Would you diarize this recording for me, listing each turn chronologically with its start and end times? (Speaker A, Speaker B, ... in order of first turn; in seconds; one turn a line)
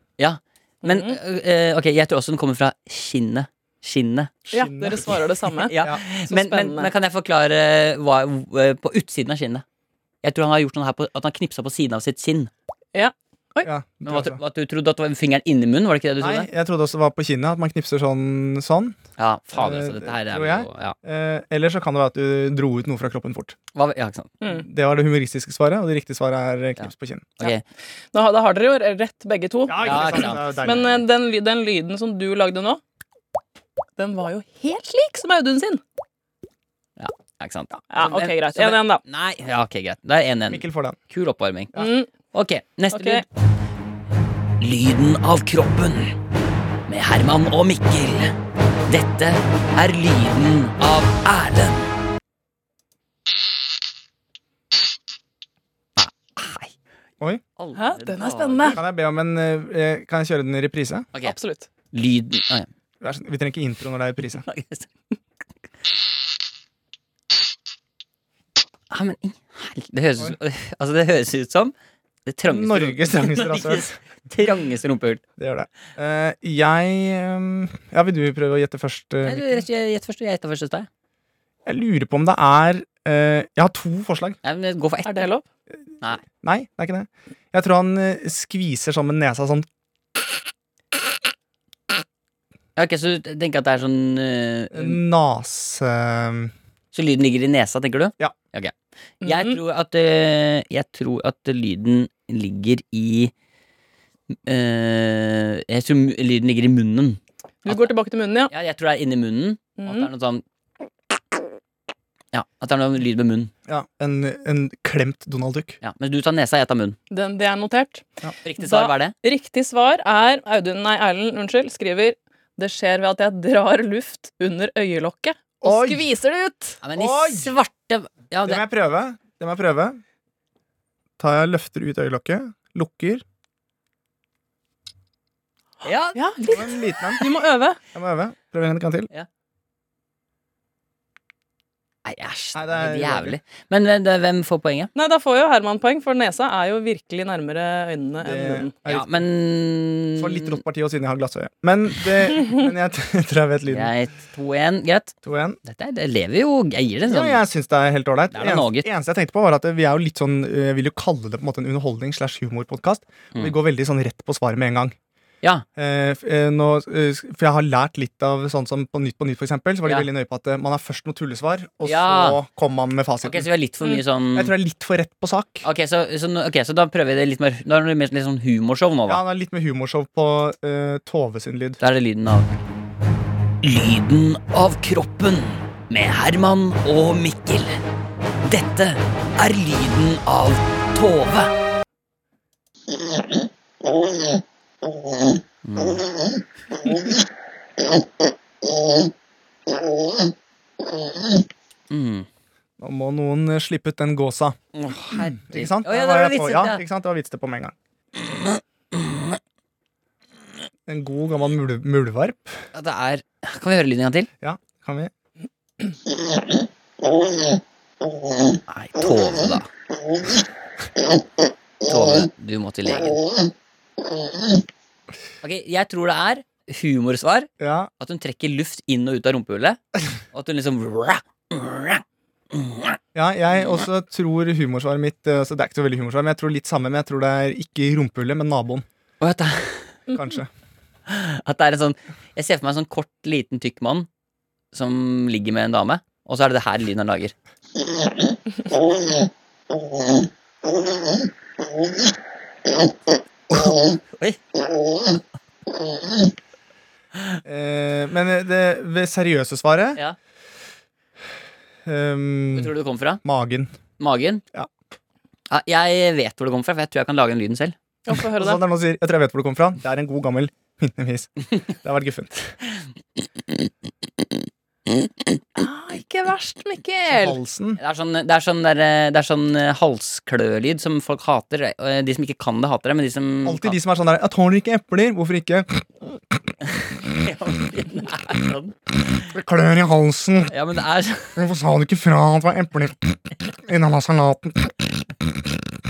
Speaker A: 0.2-4.3
Speaker B: 0.8-1.2
Speaker C: 4.5-5.1
Speaker B: 4.5-6.9
Speaker A: 5.7-9.6
Speaker A: 10.2-12.5
Speaker B: 12.9-13.7
Speaker C: 13.6-14.4
Speaker A: 14.0-16.5
Speaker C: 16.2-19.0
Speaker A: 19.2-20.9
Speaker C: 19.5-23.5
Speaker A: 23.7-24.3
Speaker C: 24.6-27.3
Speaker B: 28.1-32.8
Speaker C: 29.7-31.0
Speaker A: 29.8-30.5
Speaker B: 34.0-35.8
Speaker A: 37.0-41.7
Speaker B: 37.9-39.0
Speaker C: 40.5-41.0
Speaker B: 41.7-42.1
Speaker A: 42.3-43.2
Speaker B: 42.9-43.2
Speaker A: 44.6-46.1
Speaker A: 46.9-48.3
Speaker A: 48.9-51.9
Speaker A: 56.0-56.7
Speaker A: 57.6-58.8
Speaker B: 57.7-58.8
Speaker C: 58.7-61.1
Speaker B: 61.2-61.7
Speaker A: 61.9-62.7
Speaker C: 63.0-64.4
Speaker A: 64.4-64.9
Speaker A: 68.9-71.7
Speaker A: 72.2-75.2
Speaker C: 72.5-73.9
Speaker C: 75.4-79.6
Speaker A: 79.2-80.9
Speaker C: 81.7-84.4
Speaker A: 84.4-85.3
Speaker B: 85.0-85.4
Speaker C: 86.2-89.7
Speaker A: 92.8-95.0
Speaker C: 94.7-96.5
Speaker A: 96.9-103.3
Speaker B: 99.2-99.6
Speaker A: 104.5-107.9
Speaker B: 107.6-108.5
Speaker A: 108.5-110.4
Speaker B: 109.8-110.1
Speaker A: 112.3-113.5
Speaker C: 113.7-115.8
Speaker A: 115.8-117.0
Speaker B: 117.1-118.0
Speaker A: 118.4-119.1
Speaker B: 118.6-126.8
Speaker C: 125.6-126.0
Speaker A: 126.8-128.6
Speaker C: 126.9-127.5
Speaker C: 128.4-130.0
Speaker C: 131.2-133.2
Speaker A: 135.8-136.2
Speaker B: 136.1-137.8
Speaker C: 136.5-137.2
Speaker C: 137.9-139.1
Speaker A: 142.0-144.9
Speaker C: 142.5-143.4
Speaker B: 144.9-148.7
Speaker C: 148.2-149.2
Speaker A: 148.8-150.6
Speaker C: 150.2-153.9
Speaker A: 153.7-157.4
Speaker C: 155.2-155.6
Speaker C: 157.1-164.9
Speaker A: 158.3-158.9
Speaker C: 165.8-173.5
Speaker A: 171.8-172.4
Speaker A: 173.2-174.5
Speaker C: 174.3-175.7
Speaker A: 175.6-179.2
Speaker C: 179.1-181.8
Speaker A: 181.8-182.6
Speaker A: 183.6-187.8
Speaker A: 188.4-191.5
Speaker A: 195.6-196.1
Speaker A: 201.9-202.3
Speaker C: 202.8-204.6
Speaker A: 204.7-206.8
Speaker C: 205.1-207.7
Speaker A: 208.2-209.4
Speaker C: 210.9-212.6
Speaker A: 212.7-214.3
Speaker C: 214.4-215.1
Speaker A: 218.7-219.7
Speaker A: 221.8-223.2
Speaker A: 225.4-229.8
Speaker C: 227.6-227.9
Speaker A: 230.3-233.0
Speaker C: 233.1-238.8
Speaker A: 239.2-240.0
Speaker C: 240.1-240.5
Speaker A: 241.1-244.1
Speaker A: 244.7-247.3
Speaker A: 253.5-254.4
Speaker C: 257.4-260.0
Speaker C: 261.8-263.7
Speaker A: 262.5-263.2
Speaker A: 264.0-264.4
Speaker A: 265.5-267.7
Speaker B: 268.1-268.6
Speaker C: 268.3-272.6
Speaker B: 275.6-277.4
Speaker C: 277.1-277.8
Speaker A: 277.8-283.8
Speaker C: 283.4-285.8
Speaker A: 286.6-288.8
Speaker C: 289.3-290.5
Speaker A: 290.5-291.4
Speaker C: 291.4-294.9